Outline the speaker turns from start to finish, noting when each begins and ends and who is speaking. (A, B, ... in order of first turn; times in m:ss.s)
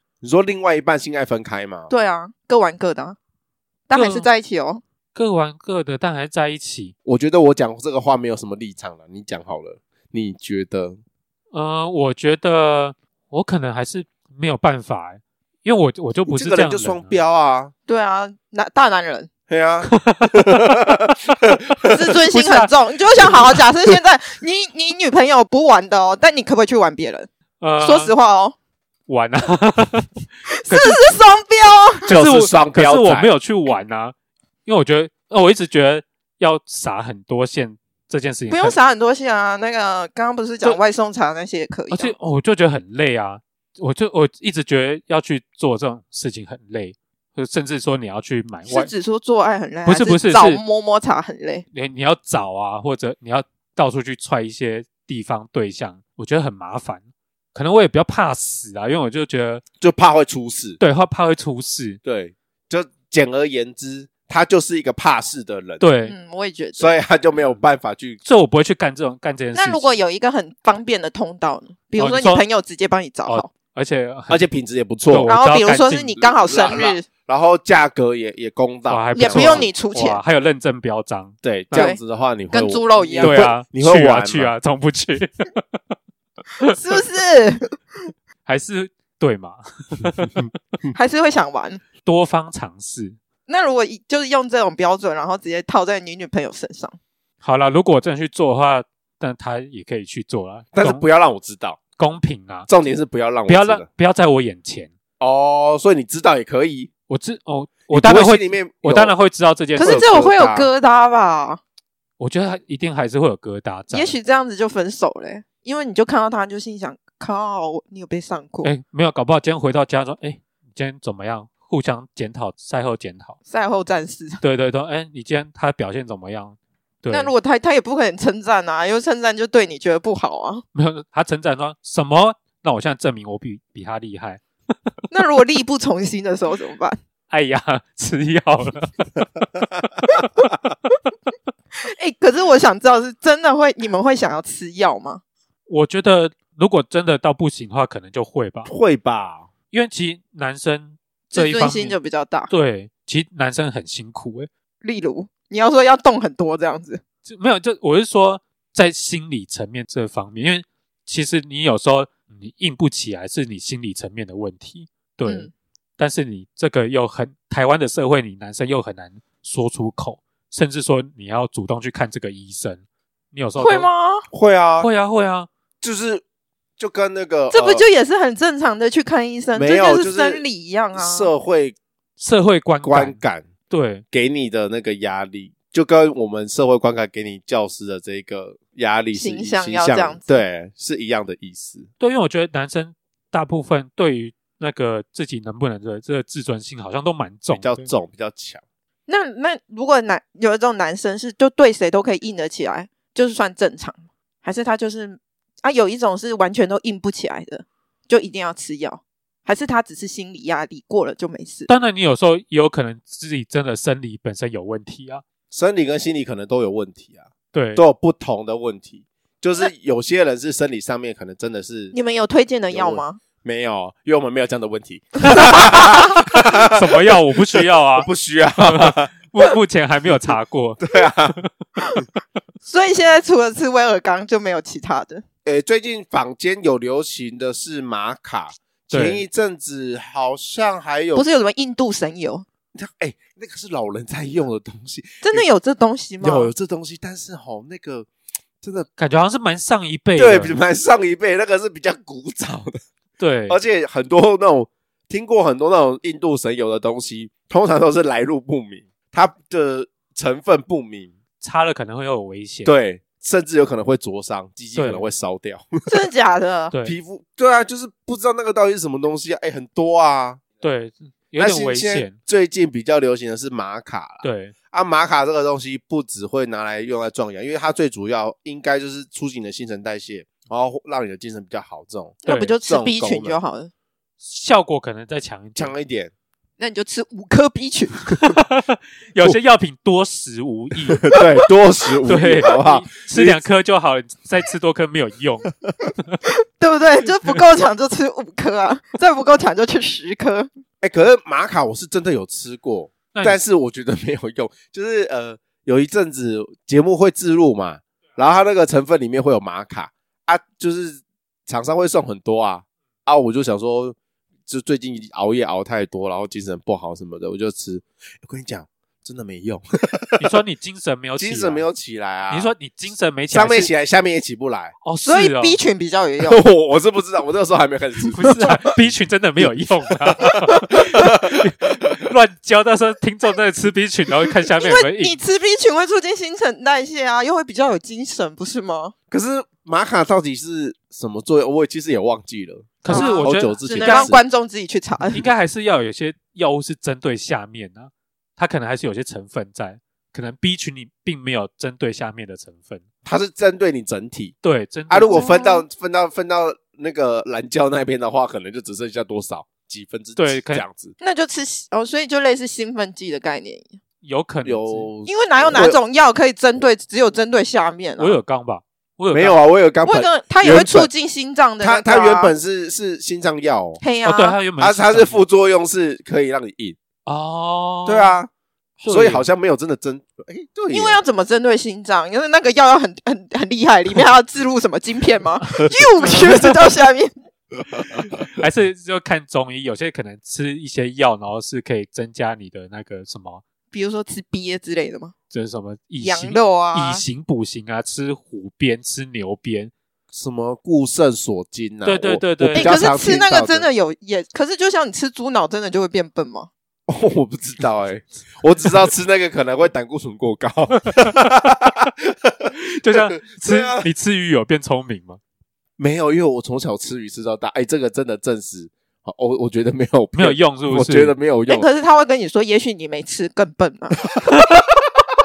0:00.2-0:01.9 A
0:01.9-0:03.2 B
0:03.9-0:04.8 B
0:03.9-0:04.3 C
0:05.2-0:06.9 C
0:07.0-0:11.0 A
0:11.5-0:17.2 C
0:16.3-0:17.7 A
0:17.9-0:19.3 B
0:19.5-0:22.0 A
0:19.9-0:20.6 C
0:21.9-0:28.6 B
0:22.3-0:23.6 C
0:27.6-0:28.1 C
0:29.1-0:31.0 C
0:30.5-0:32.1 B
0:32.0-0:34.1 C
0:32.1-0:33.3 A
0:34.7-0:38.8 C
0:38.5-0:42.2 B
0:41.9-0:48.9 C
0:48.7-0:51.7 B
0:49.9-0:50.6 C
0:51.7-0:59.6 C
0:59.8-1:00.8 A
1:00.8-1:02.0 C
1:02.0-1:05.8 A
1:05.8-1:06.2 C
1:06.0-1:06.9 B
1:06.8-1:08.2 A
1:08.2-1:09.9 C
1:09.5-1:13.5 B
1:12.0-1:12.4 C
1:13.3-1:14.4 C
1:14.3-1:15.3 A
1:15.1-1:16.3 C
1:15.3-1:17.1 B
1:16.4-1:19.7 A
1:18.9-1:21.9 C
1:19.2-1:20.2 B
1:21.4-1:24.5 A
1:21.7-1:22.0 B
1:22.5-1:23.5 B
1:23.2-1:25.6 C
1:26.7-1:28.0 B
1:28.5-1:30.5 C
1:30.9-1:31.8 B
1:32.0-1:33.2 C
1:33.5-1:37.0 B
1:37.4-1:41.0 C
1:40.7-1:41.8 A
1:42.0-1:42.7 C
1:42.7-1:43.9 A
1:43.5-1:44.9 C
1:45.2-1:46.9 A
1:47.1-1:50.2 C
1:47.9-1:49.1 A
1:49.8-1:50.7 A
1:49.8-1:51.6 B
1:52.2-1:54.2 C
1:53.9-1:58.7 B
1:58.6-2:03.4 C
2:03.5-2:04.4 B
2:04.4-2:07.3 C
2:07.1-2:10.6 B
2:10.8-2:14.9 C
2:15.1-2:17.0 B
2:17.3-2:20.5 C
2:21.7-2:25.2 B
2:25.7-2:28.7 C
2:28.7-2:29.5 A
2:29.7-2:32.0 C
2:31.3-2:32.5 B
2:32.5-2:34.5 C
2:34.8-2:37.0 B
2:37.3-2:53.9 C
2:45.2-2:45.5 B
2:53.6-2:54.3 B
2:54.3-2:54.9 A
2:54.8-2:55.5 C
2:55.8-2:56.2 A
2:56.8-2:57.8 A
2:57.5-3:01.3 B
2:59.6-3:01.8 A
3:02.2-3:04.0 C
3:02.8-3:03.5 A
3:04.1-3:11.9 A
3:09.1-3:10.4 B
3:12.0-3:17.9 C
3:17.5-3:18.6 A
3:19.1-3:31.7 B
3:31.7-3:35.2 C
3:35.5-3:42.0 A
3:37.5-3:37.8 C
3:41.9-3:43.2 B
3:42.7-3:49.2 A
3:45.2-3:51.5 C
3:45.4-3:45.9 B
3:50.2-3:51.4 A
3:52.6-3:55.2 B
3:55.4-4:01.3 A
3:58.9-3:59.2 C
4:01.2-4:02.5 B
4:02.8-4:05.5 A
4:05.2-4:06.5 B
4:06.2-4:08.1 A
4:08.6-4:08.9 A
4:09.0-4:10.6 C
4:10.2-4:12.8 A
4:13.2-4:13.6 C
4:13.5-4:21.1 A
4:21.4-4:22.7 C
4:22.6-4:25.8 A
4:24.8-4:25.0 C
4:25.9-4:26.7 B
4:26.8-4:30.4 A
4:30.6-4:32.2 C
4:31.4-4:43.4 A
4:34.2-4:34.5 C
4:42.2-4:43.7 B
4:42.3-4:42.6 C
4:44.2-4:45.7 C
4:45.6-4:46.1 A
4:46.6-4:48.1 B
4:48.2-4:51.2 C
4:51.0-4:53.4 A
4:52.1-4:55.5 C
4:56.6-5:00.5 B
5:00.8-5:20.3 A
5:03.1-5:03.4 C
5:20.2-5:21.6 C
5:21.2-5:22.5 A
5:22.3-5:23.7 C
5:23.3-5:24.8 A
5:24.8-5:25.6 C
5:25.0-5:26.4 B
5:26.2-5:28.7 A
5:28.1-5:35.2 C
5:30.1-5:31.8 A
5:34.6-5:38.9 B
5:39.1-5:44.2 A
5:42.8-5:44.1 C
5:42.9-5:45.2 B
5:45.1-5:52.8 C
5:53.0-5:54.4 A
5:54.4-5:55.3 C
5:54.9-6:01.0 A
5:55.1-5:55.6 B
6:00.2-6:00.6 C
6:01.0-6:03.8 B
6:04.0-6:04.9 C
6:04.4-6:05.8 A
6:05.1-6:08.2 B
6:08.0-6:09.4 C
6:09.1-6:10.9 A
6:09.8-6:12.3 B
6:11.6-6:13.8 A
6:13.8-6:14.4 B
6:14.0-6:15.2 C
6:14.6-6:16.8 A
6:17.0-6:18.2 C
6:17.9-6:18.3 A
6:18.8-6:19.3 C
6:18.8-6:21.0 A
6:20.7-6:27.1 B
6:26.1-6:26.5 C
6:27.8-6:28.2 A
6:28.2-6:33.4 C
6:33.7-6:35.1 B
6:35.3-6:39.7 C
6:36.0-6:37.0 B
6:40.1-6:43.7 A
6:41.8-6:42.8 C
6:42.5-6:46.5 B
6:46.9-6:53.9 A
6:50.9-6:51.2 C
6:52.7-6:55.2 C
6:55.8-7:01.7 A
7:00.2-7:01.2 C
7:01.5-7:04.0 B